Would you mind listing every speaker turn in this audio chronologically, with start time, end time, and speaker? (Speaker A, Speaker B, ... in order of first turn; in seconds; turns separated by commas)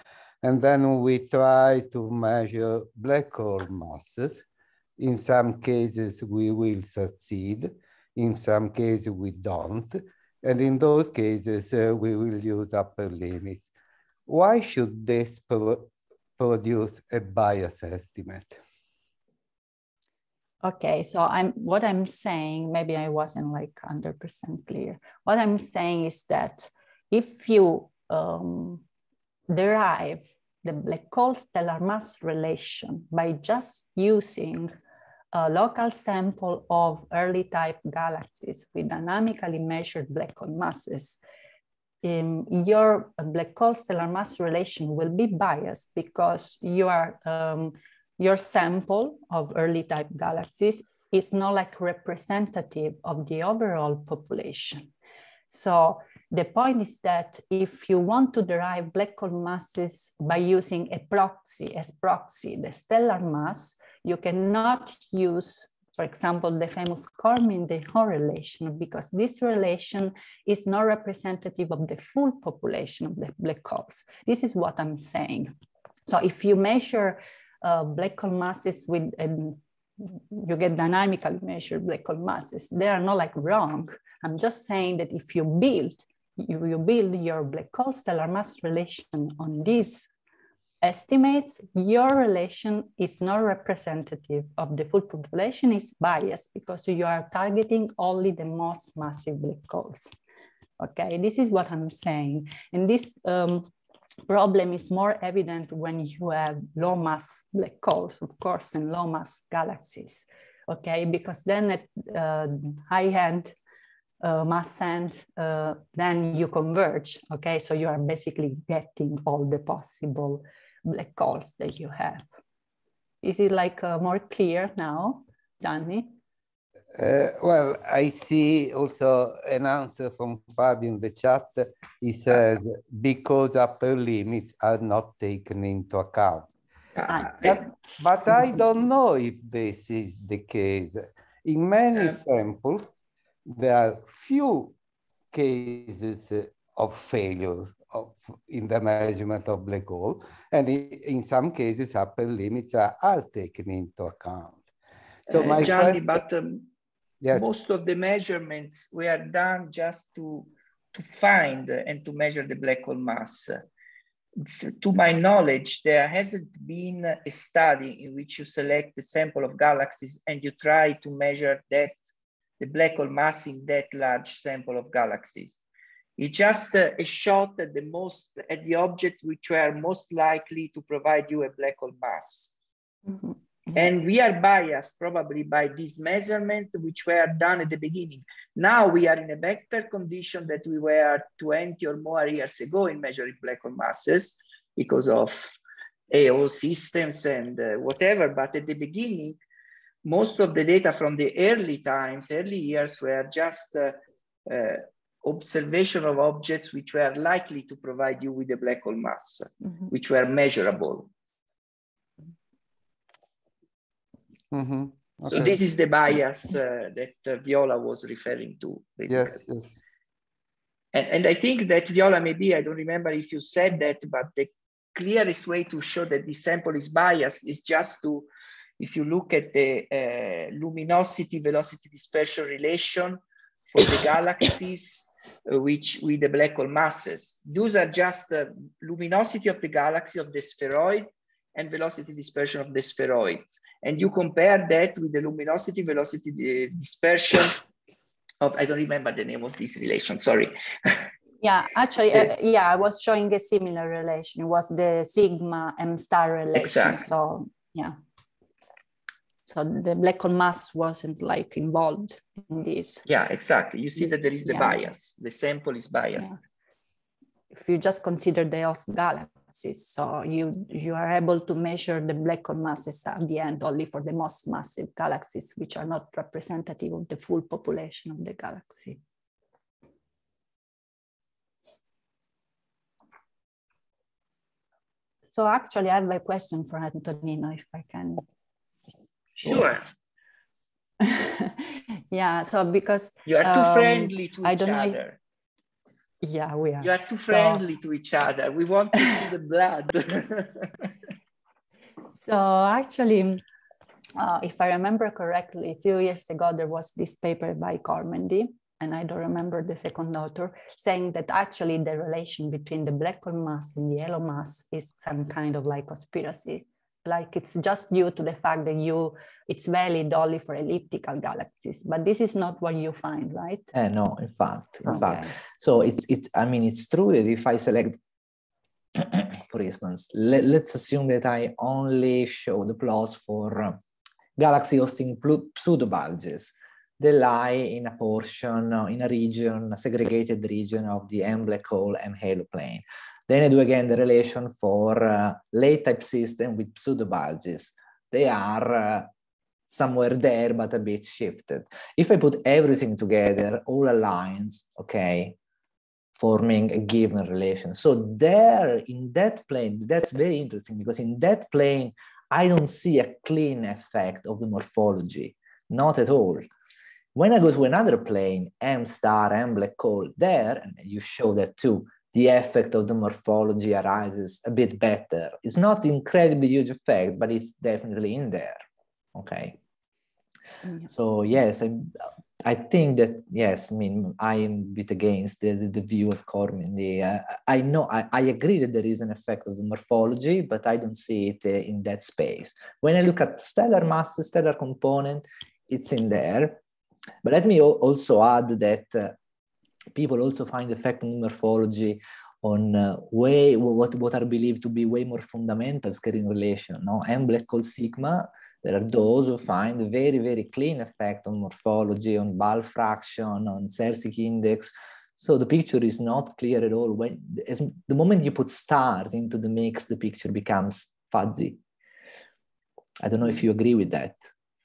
Speaker A: 0.4-4.4, Speaker A: 5.0-13.7, Speaker A: 14.3-18.6, Speaker B: 20.6-28.8, Speaker B: 29.5-34.7, Speaker B: 35.3-41.2, Speaker B: 42.0-54.9, Speaker B: 55.5-75.5, Speaker B: 76.1-90.1, Speaker B: 90.8-100.1, Speaker B: 100.8-103.7, Speaker B: 104.3-113.5, Speaker B: 114.2-122.2, Speaker B: 123.2-126.2, Speaker A: 126.9-136.5, Speaker C: 136.9-137.6, Speaker B: 137.1-137.6, Speaker A: 138.0-142.9, Speaker A: 143.4-144.8, Speaker A: 145.3-154.7, Speaker A: 155.2-156.2, Speaker C: 155.3-156.7, Speaker A: 157.2-157.5, Speaker C: 157.3-163.6, Speaker C: 164.4-171.9, Speaker C: 172.6-175.6, Speaker C: 176.2-182.5, Speaker B: 183.1-183.8, Speaker C: 183.7-195.6, Speaker C: 196.1-199.4, Speaker C: 200.0-211.1, Speaker A: 214.5-215.6, Speaker C: 215.3-219.4, Speaker A: 219.1-219.8, Speaker C: 220.9-247.6, Speaker C: 248.4-251.1, Speaker B: 251.4-257.9, Speaker C: 256.5-257.1, Speaker B: 259.4-263.0, Speaker C: 263.1-266.4, Speaker B: 264.4-264.8, Speaker B: 267.5-279.0, Speaker B: 285.3-288.2, Speaker C: 289.4-289.8, Speaker B: 291.0-295.0, Speaker C: 293.2-295.2, Speaker B: 296.2-297.6, Speaker C: 296.8-300.9, Speaker B: 302.2-303.4, Speaker B: 304.1-323.7, Speaker D: 323.7-328.0, Speaker B: 324.9-325.4, Speaker D: 328.9-333.8, Speaker D: 334.4-349.1, Speaker D: 349.7-355.4, Speaker D: 356.2-366.5, Speaker D: 367.1-378.6, Speaker D: 379.1-379.6, Speaker D: 380.9-396.6, Speaker D: 397.2-399.1, Speaker D: 399.9-421.6, Speaker D: 423.0-424.3